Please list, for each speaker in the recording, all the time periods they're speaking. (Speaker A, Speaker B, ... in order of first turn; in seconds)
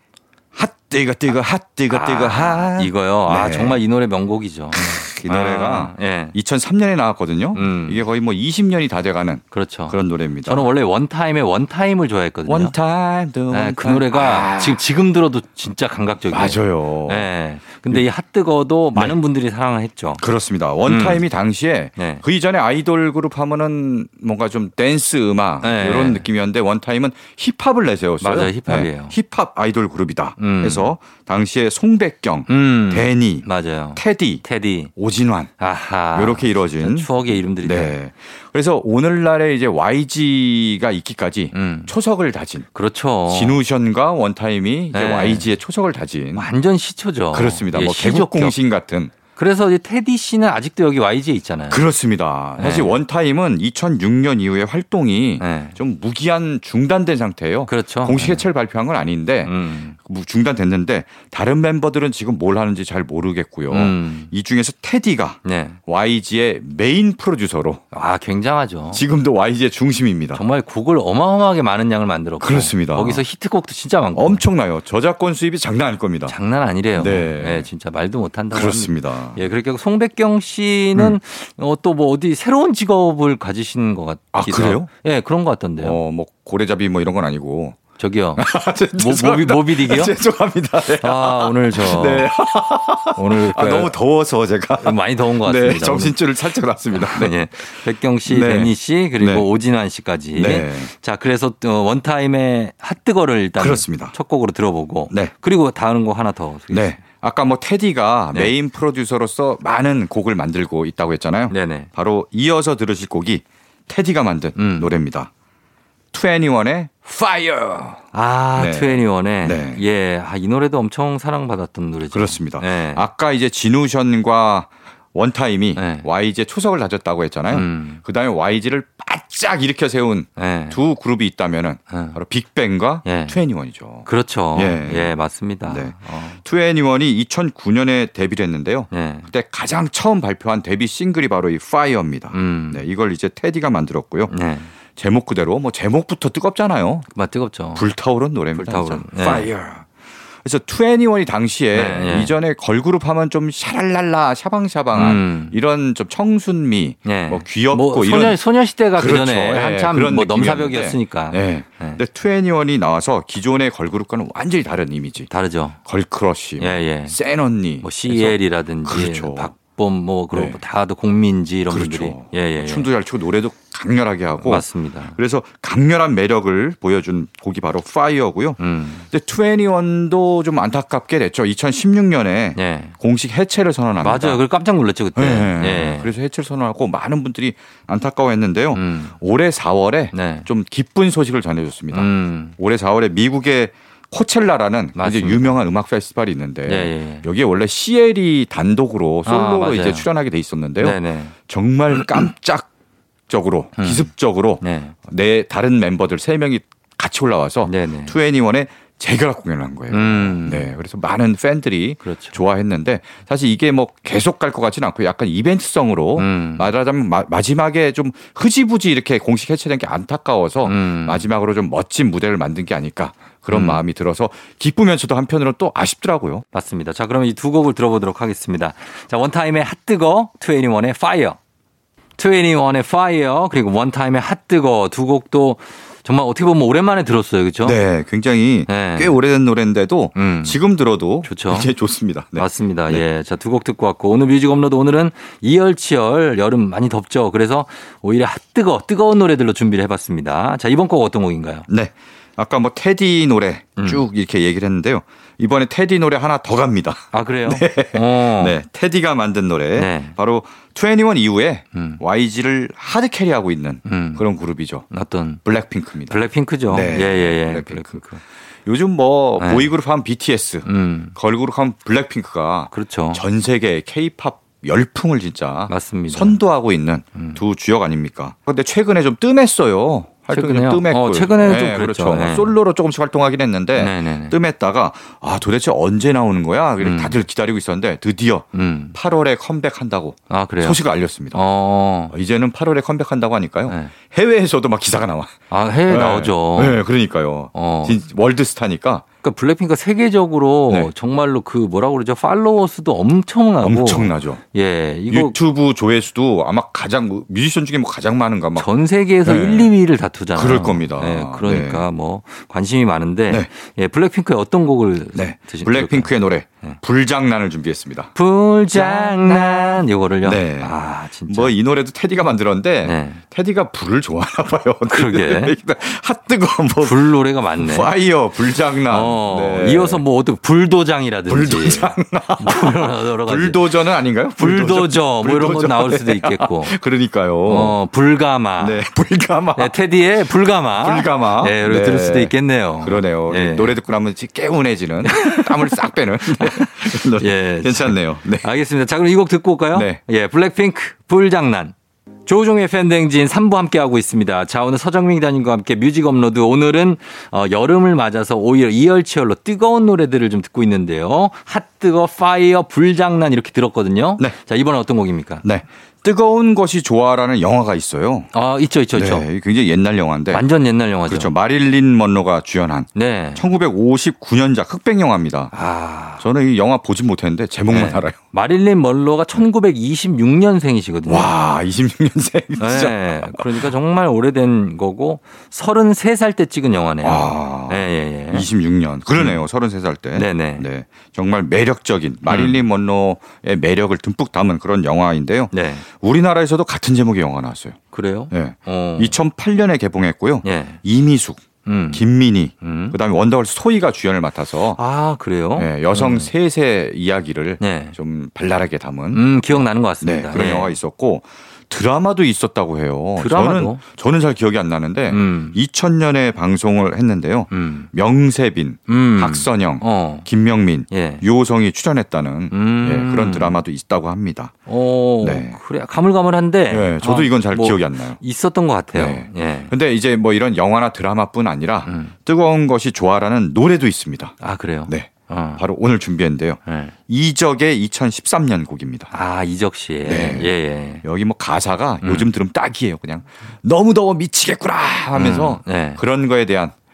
Speaker A: 0.5-3.8, 4.7-10.7, 12.5-14.8, 16.3-17.3, 20.2-34.4, 35.0-35.5, 36.1-42.7, 43.3-46.5, 47.3-49.1, 51.7-67.8, 68.9-70.4, 72.4-73.2, 74.2-76.4, 77.0-77.7, 78.5-79.4, 84.3-84.9, 85.8-87.8, 88.4-97.4, 98.3-99.5, 100.3-100.9, 103.6-104.1, 106.7-115.3, 116.1-118.0, 118.6-119.8, 122.1-135.1, 135.7-144.3, 144.9-147.1, 147.8-149.9, 150.4-158.4, 158.9-165.3, 165.8-169.5, 170.3-170.6, 171.7-184.4, 185.2-202.7, 203.3-226.4, 237.6-243.0, 251.7-264.9, 265.4-268.0, 268.7-291.4, 292.1-295.4, 295.9-299.1, 303.6-304.4, 305.1-308.7, 309.2-309.7, 310.4-311.9, 315.1-318.1, 318.7-320.8, 321.3-330.0, 331.3-337.8, 338.6-339.7, 340.8-342.3, 342.8-348.5, 349.7-350.0, 365.4-368.3, 368.9-370.4, 371.1-375.5, 376.2-378.2, 381.1-383.6, 387.0-397.8, 398.3-404.8, 405.6-424.6, 425.2-425.6, 426.7-428.2, 428.9-439.1, 440.1-440.5, 441.0-446.8
Speaker B: 1.9-6.3, 7.5-8.0, 9.5-12.7, 13.5-20.2, 20.9-21.2, 22.0-22.2, 25.6-26.3, 28.2-29.1, 30.4-30.9, 32.5-34.9, 35.6-37.9, 41.5-41.9, 42.7-43.6, 44.9-45.5, 46.4-48.6, 49.4-51.8, 52.6-52.9, 55.4-55.8, 57.7-58.5, 59.5-60.0, 63.7-64.3, 65.5-65.8, 67.9-69.0, 70.3-74.4, 76.3-86.0, 88.0-88.4, 89.0-90.2, 91.0-92.3, 93.2-94.0, 94.8-96.3, 96.9-107.0, 111.5-111.9, 114.6-114.9, 118.1-123.0, 125.8-126.1, 127.5-128.0, 130.4-130.8, 131.9-132.2, 133.1-133.4, 134.1-136.4, 138.9-139.3, 142.3-142.8, 144.3-144.7, 147.2-147.9, 148.5-149.5, 151.7-152.3, 154.9-155.6, 157.1-162.0, 165.3-165.8, 166.6-167.2, 167.8-172.9, 174.4-175.1, 178.6-179.1, 182.6-182.9, 184.0-186.1, 188.7-189.2, 190.1-190.5, 191.9-192.6, 195.0-195.6, 196.7-197.3, 199.3-200.1, 200.8-201.3, 201.9-202.3, 203.8-204.9, 207.7-208.2, 209.9-210.7, 212.0-212.4, 216.2-216.7, 220.6-221.3, 223.5-223.8, 226.5-231.4, 232.2-237.8, 238.7-239.2, 240.2-240.6, 241.2-241.7, 242.4-251.7, 253.8-254.0, 257.1-258.6, 259.8-260.2, 261.7-262.0, 263.9-264.2, 264.9-265.4, 266.1-268.2, 269.4-269.7, 270.6-271.1, 272.7-273.2, 275.7-276.4, 277.1-277.4, 280.3-282.6, 283.8-284.4, 286.8-287.2, 288.5-289.0, 290.3-290.8, 291.3-292.1, 293.7-293.9, 295.5-296.8, 297.5-298.0, 299.2-305.4, 308.6-316.8, 318.1-321.5, 322.8-323.2, 324.9-325.6, 326.8-327.9, 328.9-333.8, 334.4-336.8, 337.5-338.8, 339.6-343.8, 345.1-345.8, 346.3-351.7, 352.3-365.4, 368.3-369.2, 370.3-371.3, 372.9-373.4, 375.5-376.2, 377.7-381.3, 382.6-388.5, 389.2-389.4, 390.1-390.7, 392.3-392.6, 395.5-395.9, 397.9-399.2, 400.4-400.8, 401.6-402.0, 402.6-403.0, 404.8-406.3, 407.6-407.9, 409.1-410.8, 413.2-413.8, 415.1-415.6, 417.5-417.9, 418.9-420.3, 420.9-421.2, 422.5-423.6, 424.7-429.7, 431.9-432.1, 434.4-435.6, 436.7-436.9, 439.1-441.0, 442.0-442.3, 445.1-446.0